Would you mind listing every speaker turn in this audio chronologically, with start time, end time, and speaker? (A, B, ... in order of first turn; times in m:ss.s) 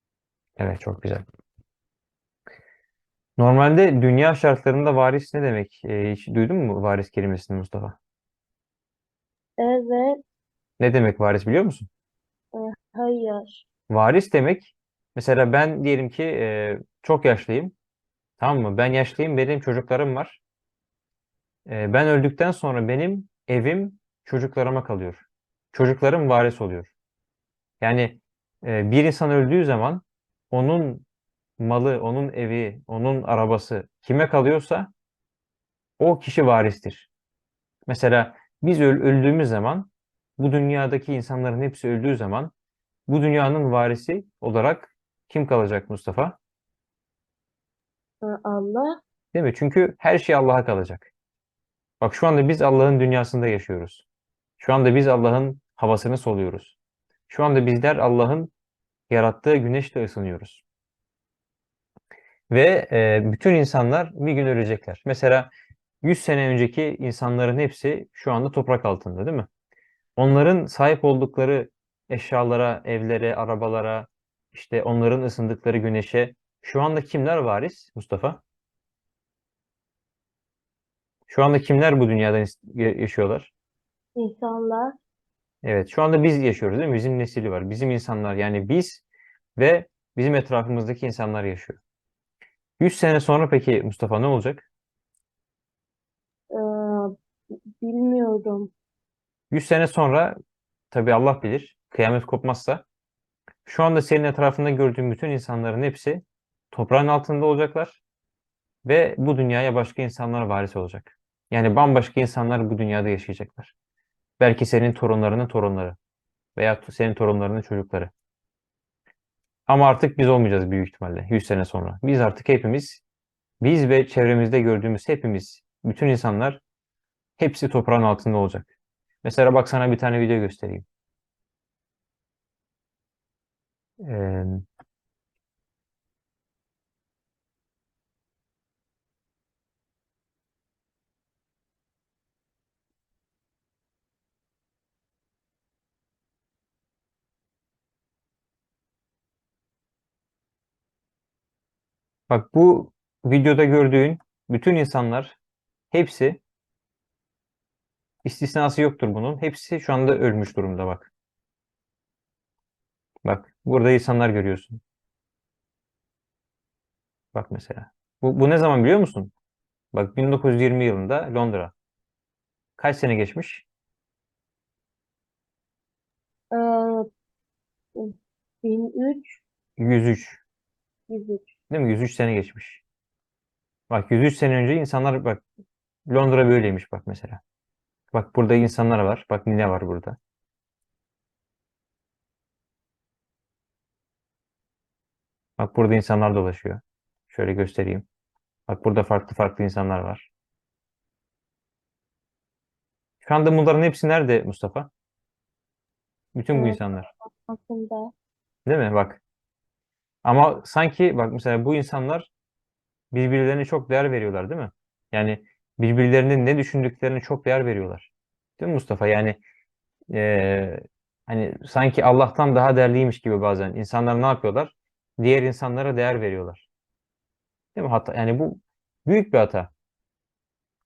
0:00.6-0:01.2 A
0:03.4-0:08.0 A
0:09.6-0:10.2 B
0:10.8-0:11.9 A
0:12.5-0:13.6 B
0:13.9-0:17.7 A
0:18.4-0:20.4 A
0:21.6-0:26.9 A
0:27.8-0:31.0 A
0:31.6-0:34.9 A
0:36.0-0:37.1 A
0:37.9-0:42.5 A
0:43.1-0:46.4 A
0:48.2-0:49.0 B
0:49.3-0:51.1 A
0:52.0-0:54.0 A
0:54.6-0:56.8 A
0:57.3-0:58.5 A
0:59.1-1:00.6 A
1:02.5-1:05.5 A
1:06.0-1:09.5 A
1:10.2-1:18.4 A
1:21.3-1:23.5 A
1:24.2-1:25.0 B
1:25.6-1:29.0 A
1:29.6-1:31.8 A
1:32.8-1:34.7 A
1:36.5-1:37.1 B
1:37.8-1:38.7 B
1:39.5-1:40.3 A
1:40.9-1:42.8 A
1:43.6-1:48.0 A
1:48.8-1:53.7 A
1:54.4-1:56.0 A
1:56.6-1:58.1 A
1:59.7-2:03.0 A
2:03.6-2:06.6 A
2:07.4-2:08.7 A
2:09.2-2:10.8 A
2:14.0-2:14.6 A
2:32.3-2:35.4 A
2:35.9-2:36.4 A
2:38.2-2:41.1 A
2:43.2-2:44.8 A
2:47.3-2:49.3 A
2:49.9-2:51.7 A
2:52.8-2:53.6 A
2:56.5-2:57.0 B
2:58.0-2:59.4 B
2:59.8-3:00.4 A
3:01.1-3:01.5 B
3:01.7-3:02.8 A
3:03.9-3:05.4 A
3:06.1-3:07.4 A
3:08.1-3:10.2 A
3:15.6-3:18.0 A
3:18.7-3:20.3 A
3:23.2-3:24.9 A
3:26.3-3:27.1 A
3:26.5-3:28.1 B
3:28.6-3:29.2 A
3:30.2-3:32.3 A
3:33.1-3:39.4 A
3:40.1-3:46.7 A
3:47.7-3:49.7 A